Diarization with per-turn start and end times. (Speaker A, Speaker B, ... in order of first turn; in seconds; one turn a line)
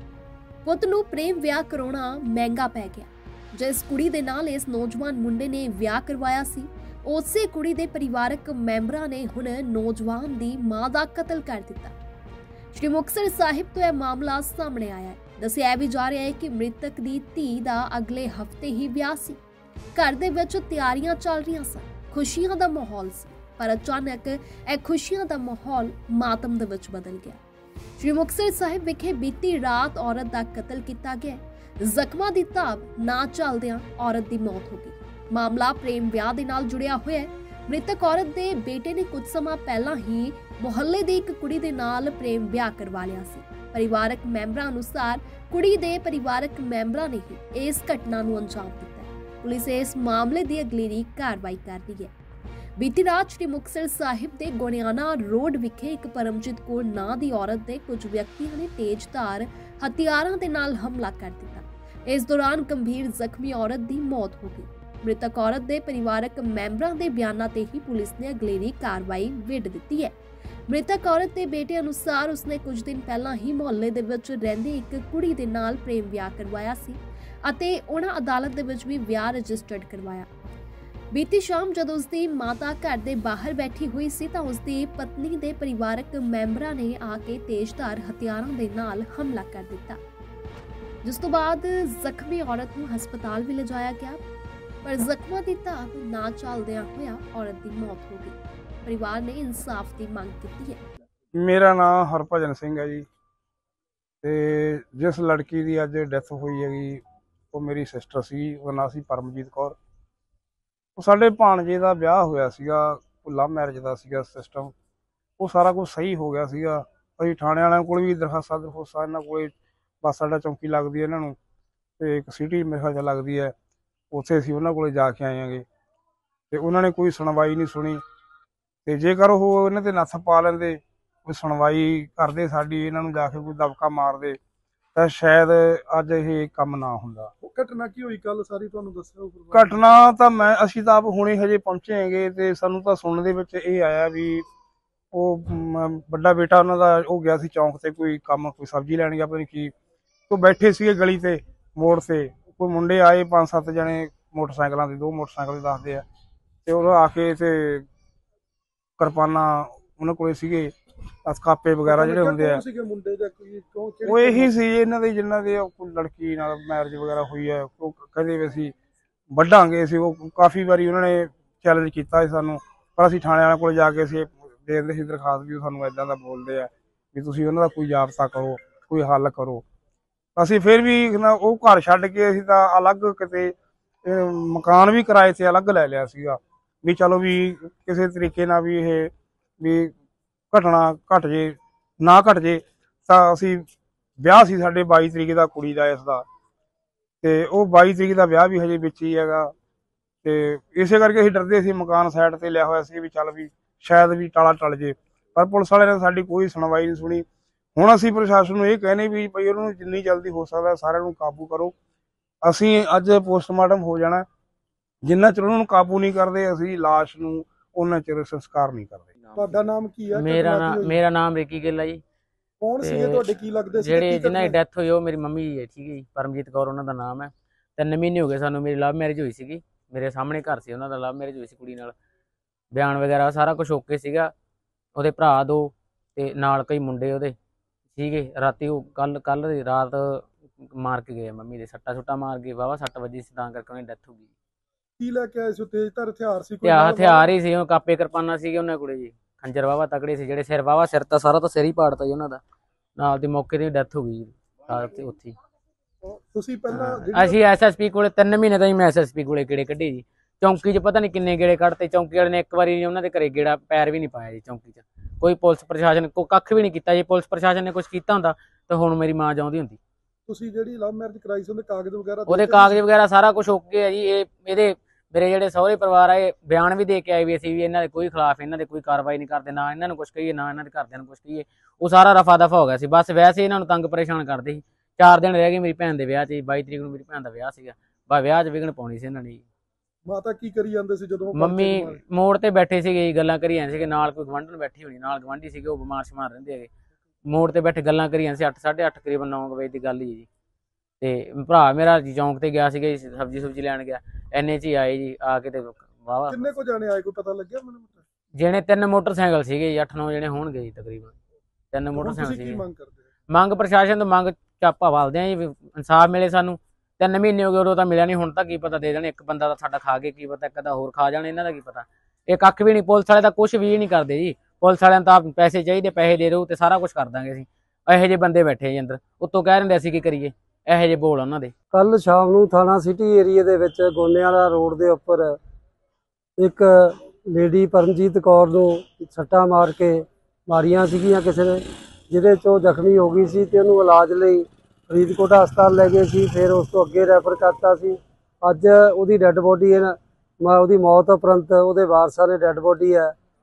Speaker A: 0.6-11.9
Speaker A: 12.7-19.4
Speaker A: 20.0-27.4
Speaker A: 28.0-52.1
Speaker A: 52.8-70.2
Speaker A: 70.7-80.3
Speaker A: 81.1-90.0
Speaker A: 91.0-94.2
Speaker A: 94.8-100.8
Speaker B: 101.4-103.1
Speaker B: 104.2-109.8
Speaker B: 111.0-114.7
Speaker B: 115.4-121.4
Speaker B: 122.0-123.5
Speaker B: 124.1-125.7
Speaker B: 126.5-128.0
Speaker B: 128.9-134.4
Speaker B: 134.9-137.3
Speaker C: 137.4-139.7
Speaker B: 139.5-144.4
Speaker B: 145.1-149.7
Speaker B: 150.3-156.0
Speaker B: 156.7-157.8
Speaker B: 159.0-160.7
Speaker B: 161.2-162.6
Speaker C: 161.9-164.5
Speaker B: 164.1-168.7
Speaker B: 169.3-179.6
Speaker B: 180.4-189.9
Speaker B: 190.5-193.7
Speaker B: 194.2-196.2
Speaker B: 197.2-199.5
Speaker B: 200.2-207.2
Speaker B: 207.8-211.7
Speaker B: 212.4-214.3
Speaker B: 215.0-219.1
Speaker C: 219.3-221.0
Speaker D: 220.1-222.0
Speaker C: 222.6-224.6
Speaker D: 222.8-231.9
Speaker D: 232.7-234.3
Speaker D: 235.0-237.3
Speaker D: 237.9-244.3
Speaker C: 245.0-247.3
Speaker D: 246.6-252.4
Speaker D: 253.0-255.3
Speaker C: 256.0-257.4
Speaker D: 256.7-269.8
Speaker C: 270.3-272.8
Speaker D: 272.3-289.4
Speaker C: 290.1-292.0
Speaker D: 291.3-296.7
Speaker D: 297.3-300.3
Speaker D: 301.0-306.5
Speaker C: 306.3-308.0
Speaker D: 308.4-311.1
Speaker D: 311.7-312.7
Speaker C: 312.0-313.1
Speaker D: 313.3-331.5
Speaker E: 331.7-335.4
Speaker E: 336.4-353.1